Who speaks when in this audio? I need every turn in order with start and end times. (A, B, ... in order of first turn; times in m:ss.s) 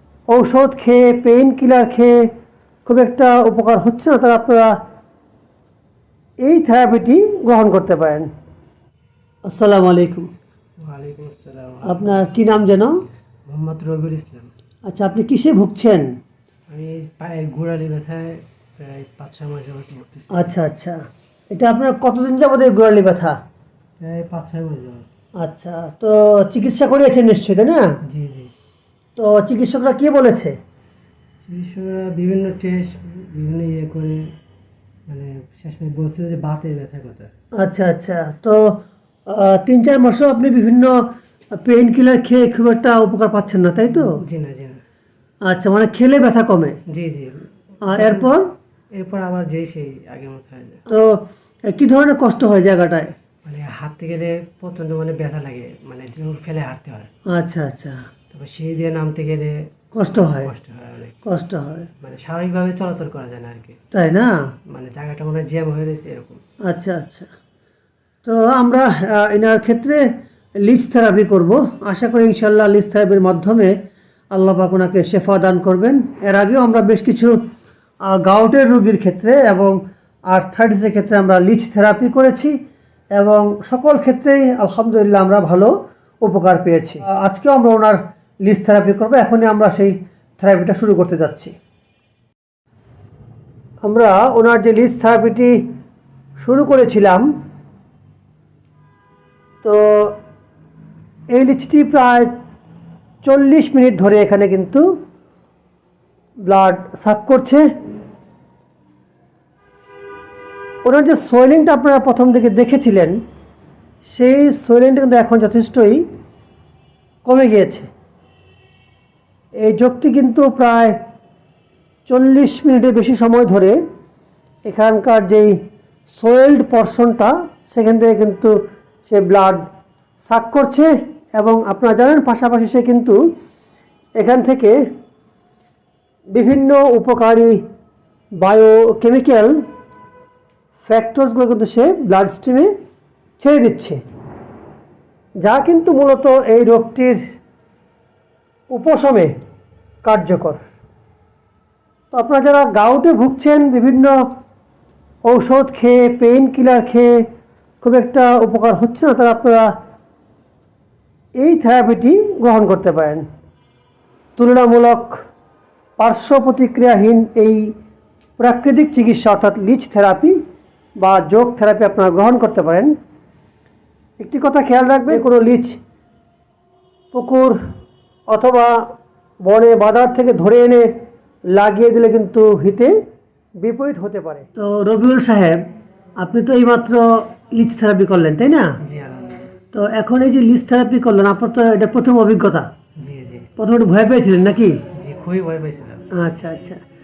0:00.3-0:02.2 A
0:02.9-0:04.8 A
0:06.4-0:08.3 A
0:09.5-0:10.3 A
0:10.8-0:12.3 B
0:11.8-0:13.0 A
0:13.5-0:14.5 B
0:14.9-0:16.1 A
0:16.7-0:20.5 B
0:20.3-0:23.4 A
0:24.0-0:25.1 B
0:25.4-0:27.8 A
0:28.1-0:28.5 B
0:29.2-0:30.6 A
0:31.4-0:34.3 B
0:35.1-0:37.3 B
0:37.6-0:41.0 A
0:41.6-0:44.2 A
0:43.9-0:44.8 B
0:45.4-0:46.8 A
0:46.9-0:48.4 B
0:47.9-0:48.5 A
0:48.9-0:50.8 B
0:50.9-0:53.1 A
0:53.4-0:57.1 B
0:57.3-0:58.0 A
0:58.3-1:01.2 B
0:59.9-1:00.5 A
1:01.2-1:01.9 A
1:02.0-1:03.8 B
1:03.9-1:04.4 A
1:04.7-1:06.4 B
1:06.7-1:07.3 A
1:08.2-1:10.0 A
1:10.6-1:13.7 A
1:14.3-1:17.4 A
1:18.1-1:19.8 A
1:20.3-1:22.5 A
1:23.2-1:31.5 A
1:33.8-1:35.6 A
1:36.4-1:37.3 A
1:39.6-1:40.2 A
1:41.3-1:42.3 A
1:43.2-1:44.9 A
1:46.5-1:47.7 A
1:50.8-1:53.2 A
1:54.1-1:56.1 A
1:57.2-1:57.9 A
1:59.6-2:01.0 A
2:02.1-2:03.8 A
2:04.7-2:05.6 A
2:06.1-2:08.5 A
2:09.1-2:09.6 A
2:10.2-2:13.2 A
2:14.2-2:14.8 A
2:16.3-2:17.6 A
2:18.4-2:19.6 A
2:20.8-2:22.7 A
2:23.4-2:24.0 A
2:25.4-2:27.2 A
2:28.7-2:29.3 A
2:30.0-2:30.6 A
2:32.1-2:34.1 A
2:35.3-2:37.2 A
2:37.8-2:39.7 A
2:41.4-2:43.2 A
2:44.4-2:45.2 A
2:46.0-2:47.7 A
2:48.4-2:50.4 A
2:51.0-2:52.9 A
2:54.2-2:55.8 A
2:57.1-2:57.6 A
2:58.3-2:58.9 A
2:59.4-3:00.9 A
3:01.5-3:03.0 A
3:03.6-3:05.6 A
3:06.2-3:08.8 A
3:08.8-3:09.5 B
3:09.7-3:12.7 A
3:13.0-3:13.5 B
3:13.6-3:14.8 A
3:14.9-3:16.1 B
3:16.2-3:16.8 A